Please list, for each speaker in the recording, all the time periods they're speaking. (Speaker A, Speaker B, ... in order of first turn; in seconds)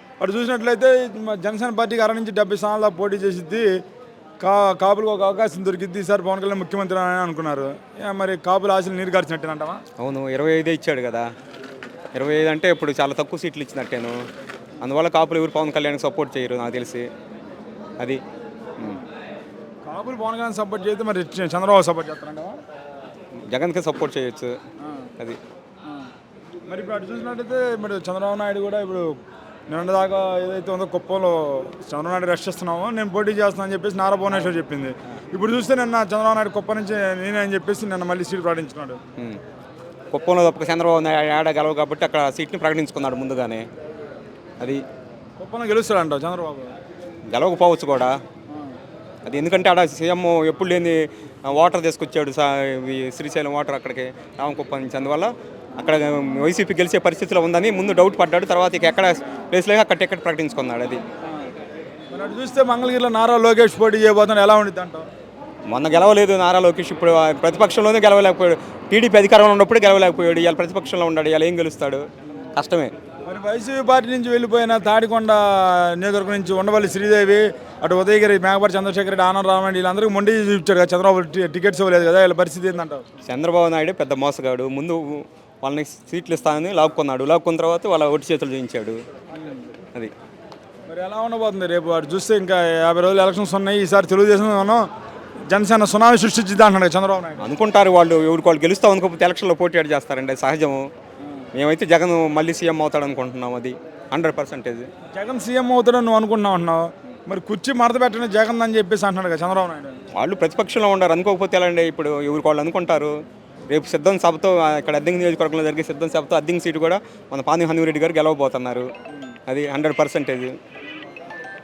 Speaker A: 0.2-3.8, 4.4-9.8, 19.9-22.6, 26.7-29.1, 29.7-39.0, 45.4-46.7, 62.1-65.0, 73.2-83.0, 89.3-89.6, 90.9-94.8, 95.5-97.5, 105.1-110.0
Speaker B: 10.0-11.3, 12.1-14.2, 14.8-17.1, 23.5-24.5, 40.1-43.6, 47.3-48.2, 49.2-61.0, 65.7-72.9, 83.2-89.0, 97.4-100.8, 101.5-104.9, 110.1-113.1, 113.7-118.9, 119.5-120.5